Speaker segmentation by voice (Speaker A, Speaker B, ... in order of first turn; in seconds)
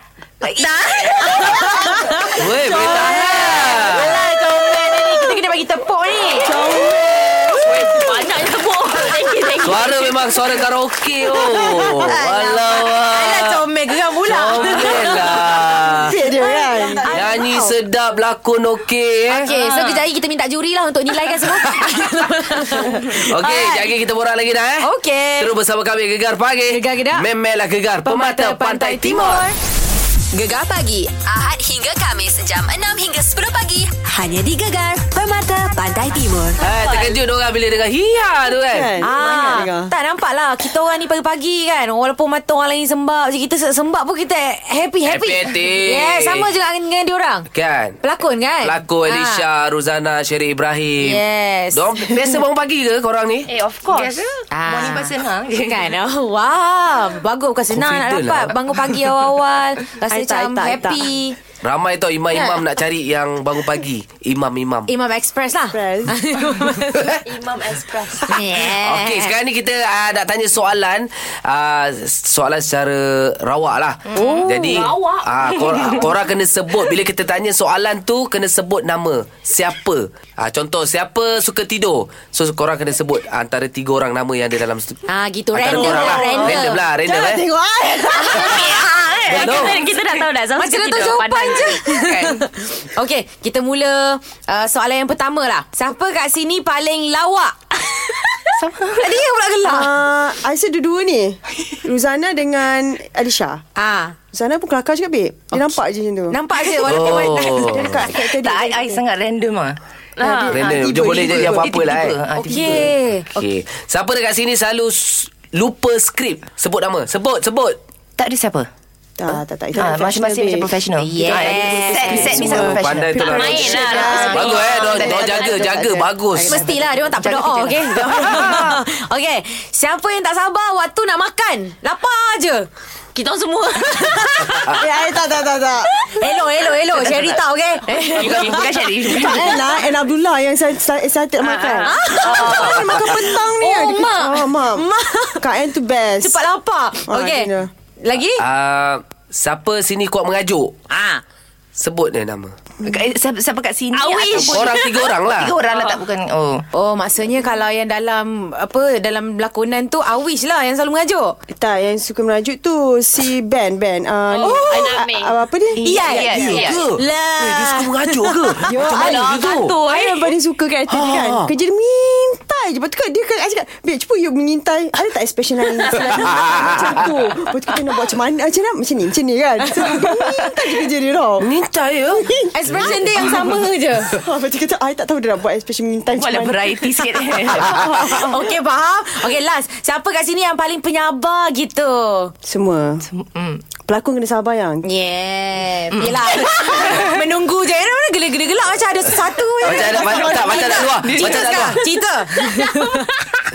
Speaker A: 0.5-2.0, 19.4-20.0, 53.9-56.0, 74.1-74.5, 88.3-89.5, 98.6-99.2, 108.0-109.8, 110.5-112.9, 118.2-118.7, 119.7-124.3, 127.0-128.6, 136.5-137.4, 137.9-139.7, 142.3-143.4, 152.8-156.6, 165.8-166.8, 186.1-187.8, 193.1-193.7, 195.9-197.2, 200.5-201.6
Speaker B: 0.5-6.7, 11.9-15.2, 16.3-17.5, 19.4-23.9, 24.8-25.5, 26.7-27.2, 28.0-29.6, 30.3-31.3, 31.9-33.7, 34.3-36.4, 39.0-47.5, 48.0-49.4, 51.0-52.4, 54.5-61.4, 62.3-62.6, 64.9-67.2, 68.3-69.3, 74.2-74.8, 85.1-86.8, 88.1-89.2, 90.6-100.0, 103.8-104.2, 105.5-105.8, 106.3-107.7, 112.5-113.3, 121.0-122.5, 126.4-132.7, 133.8-134.9, 136.0-138.7, 141.8-145.5, 146.2-148.4, 150.9-151.2, 156.7-161.4, 165.8-168.6, 182.5-184.2, 187.8-192.3, 194.8-203.3
Speaker C: 2.3-4.2, 9.6-13.6, 14.2-16.1, 17.1-19.5, 23.3-24.9, 25.4-29.5, 36.6-38.9, 45.0-46.5, 47.5-48.0, 48.6-51.2, 51.7-53.5, 57.7-59.1, 61.6-64.9, 68.4-85.0, 85.5-87.4, 89.3-89.8, 92.1-92.4, 106.9-108.0, 110.5-112.2, 113.3-117.8, 122.3-126.6, 128.1-128.8, 148.4-150.7, 151.8-152.5, 154.3-155.5, 166.6-169.8, 170.9-171.5, 176.1-177.1, 181.4-182.2, 182.8-183.5, 199.6-201.8
Speaker D: 2.9-3.1, 6.4-8.1, 11.3-12.1, 16.0-17.7, 38.7-39.9, 60.0-61.1, 65.7-66.1, 85.7-88.9, 99.6-103.6, 104.3-106.4, 107.1-109.0, 110.2-111.7, 119.2-126.6, 134.7-136.1, 139.0-144.9, 145.4-146.4, 147.1-147.7, 161.5-166.7, 168.6-181.5, 182.2-183.4, 184.2-188.3, 192.4-193.1, 193.8-194.8, 199.7-200.9
Speaker E: 7.7-10.4, 36.6-37.2, 53.5-54.2, 67.2-68.4, 74.2-76.1, 89.3-92.1, 110.2-110.5, 123.3-125.7, 133.1-134.0, 138.2-139.3, 141.4-142.6, 153.9-155.1, 155.7-156.0, 164.3-165.4, 166.3-166.8, 168.9-170.3
Speaker F: 31.4-35.4, 36.2-36.5